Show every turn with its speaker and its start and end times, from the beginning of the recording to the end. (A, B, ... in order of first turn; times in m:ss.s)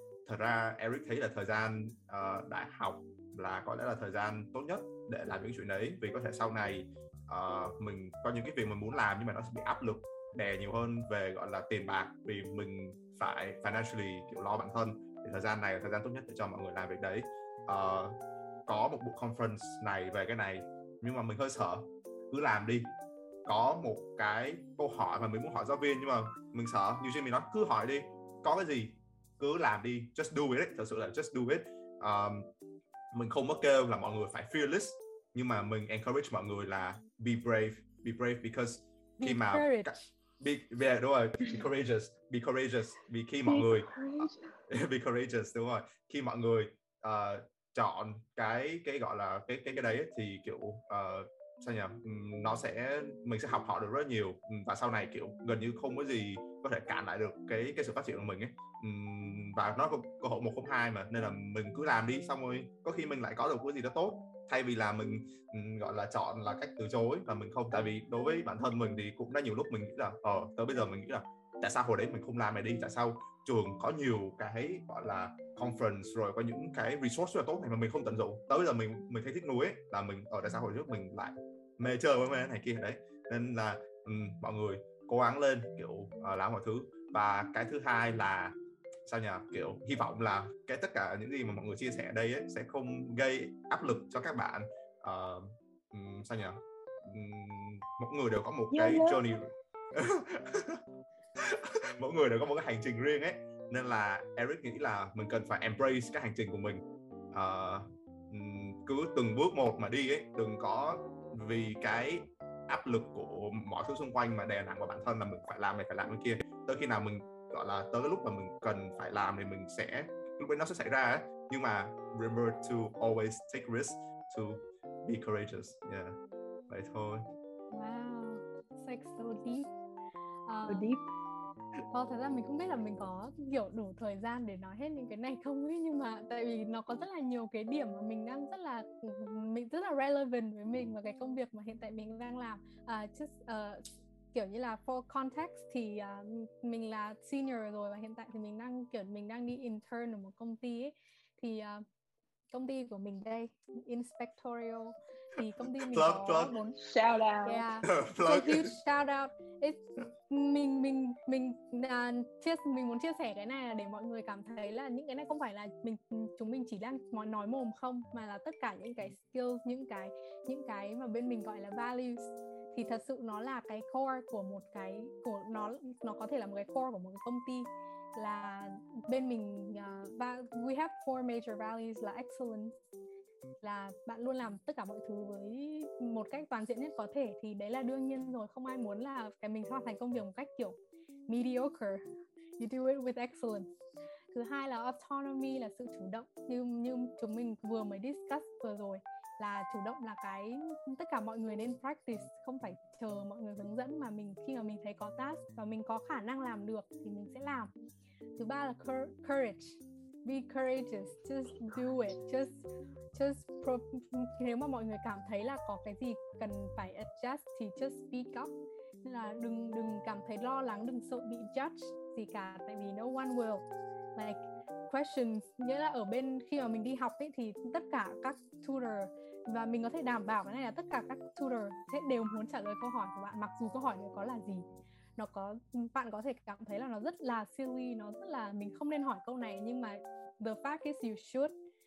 0:00.2-0:18.2 A
0:18.7-0:22.9 A
0:23.4-0:32.5 A
0:33.1-0:43.9 A
0:39.2-0:40.1 B
0:43.5-0:44.5 C
0:44.7-1:28.5 A
1:29.0-1:40.8 A
1:38.7-1:39.2 C
1:41.4-2:06.2 A
2:06.7-2:07.3 A
2:07.7-2:09.7 B
2:10.5-2:10.8 B
2:10.7-2:11.0 C
2:11.9-2:31.8 B
2:32.5-2:36.8 B
2:35.8-2:36.5 A
2:36.8-2:37.6 C
2:37.4-3:02.8 B
2:37.8-2:38.7 A
3:03.6-3:10.8 B
3:11.3-3:12.0 B
3:12.6-3:13.7 B
3:14.3-3:27.7 B
3:28.4-3:32.6 B
3:33.1-3:38.5 B
3:39.0-3:43.6 B
3:44.2-3:54.6 B
3:55.2-4:01.5 B